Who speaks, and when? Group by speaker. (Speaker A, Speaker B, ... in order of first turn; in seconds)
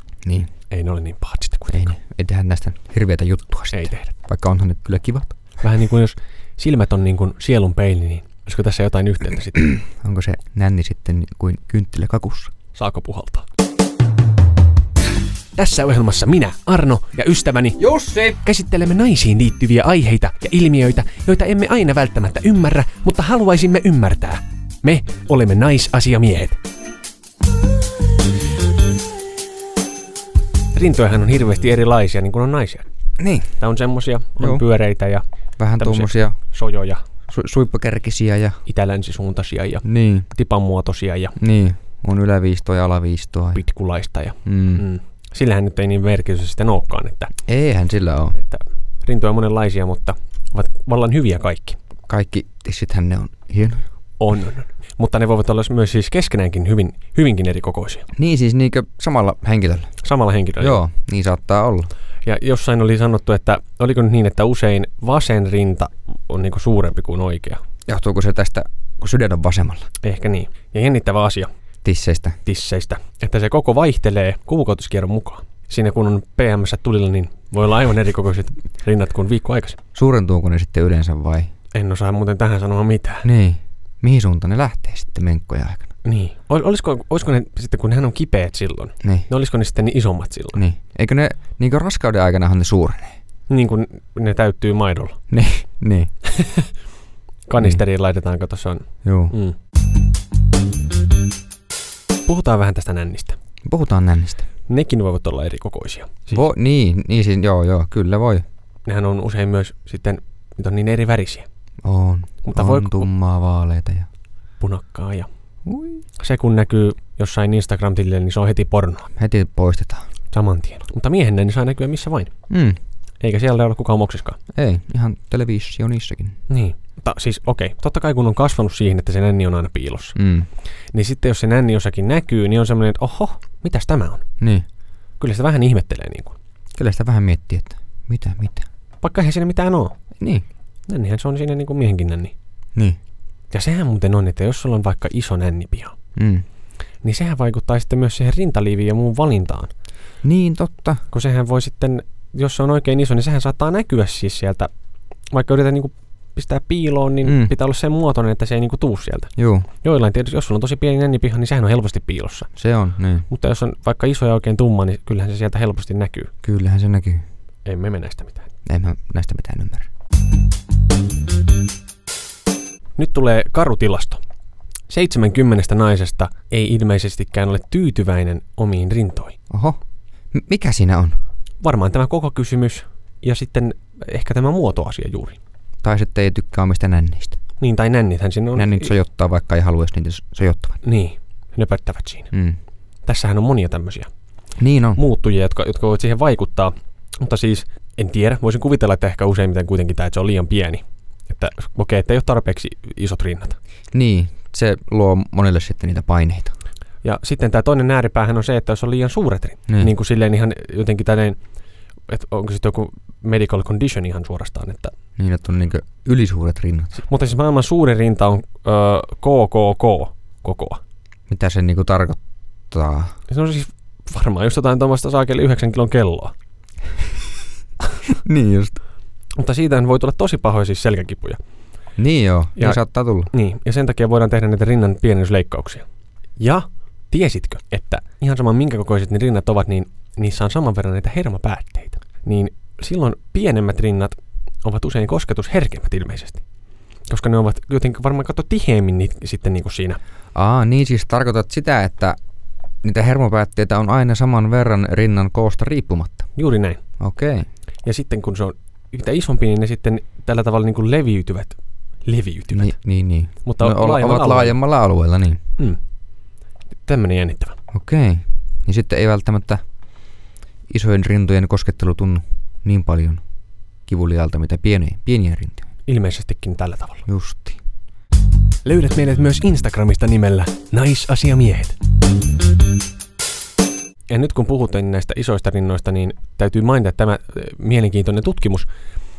Speaker A: 0.7-1.9, 3.7-4.1, 5.6-9.8, 12.8-13.4, 15.6-26.6, 30.7-32.9, 33.6-35.2, 35.8-37.0, 38.7-41.4, 43.5-47.3, 48.4-51.8, 54.2-58.1, 60.0-60.8, 62.2-67.6, 70.0-71.5, 72.5-79.8, 81.7-83.3, 86.0-90.6, 93.5-95.2, 96.3-96.7, 97.5-99.6, 102.3-103.4, 104.7-106.4, 108.9-111.5, 112.4-113.1, 114.6-115.3, 116.2-119.1, 120.3-122.3, 123.2-124.4, 126.5-130.2, 130.9-134.2, 135.2-136.3, 139.0-139.9, 140.9-142.3, 143.5-145.9, 147.0-149.7, 151.1-154.7, 155.3-162.5, 163.3-166.3, 167.7-168.5, 173.0-174.2, 174.9-179.4, 181.6-185.4, 187.6-188.9, 190.8-192.3, 193.1-194.1, 195.0-203.6, 207.0-211.4, 212.1-214.9, 217.0-220.8, 223.3-226.3, 229.4-231.4, 232.6-235.8, 236.4-246.4, 247.1-250.0, 256.4-256.8, 257.9-262.7, 263.4-264.6, 266.9-267.6, 275.9-277.0, 278.6-281.8, 284.1-288.7
Speaker B: 1.7-5.3, 9.7-12.5, 17.8-18.4, 33.2-33.5, 35.6-36.4, 37.3-38.6, 39.8-40.3, 41.4-43.6, 44.5-44.9, 47.5-48.4, 52.1-53.9, 58.1-59.9, 60.6-61.9, 67.9-69.9, 71.8-72.4, 80.0-81.5, 83.2-85.9, 89.0-89.3, 90.5-93.2, 95.3-96.1, 99.0-99.3, 103.7-104.5, 106.3-108.4, 111.8-114.1, 115.7-116.0, 119.2-120.0, 122.5-122.8, 124.5-126.4, 130.2-130.5, 136.8-138.7, 146.2-146.4, 150.2-151.0, 157.2-157.5, 159.4-159.7, 162.6-163.3, 166.4-167.2, 168.7-169.9, 179.5-179.8, 180.3-181.2, 185.8-187.4, 188.6-190.8, 192.3-192.6, 194.6-195.0, 203.9-206.6, 215.2-217.0, 221.3-222.2, 222.7-223.1, 228.1-228.8, 232.0-233.3, 250.3-252.2, 252.8-256.3, 257.0-257.5, 262.5-265.4, 267.7-269.6, 270.7-273.2, 273.9-275.6, 277.1-277.6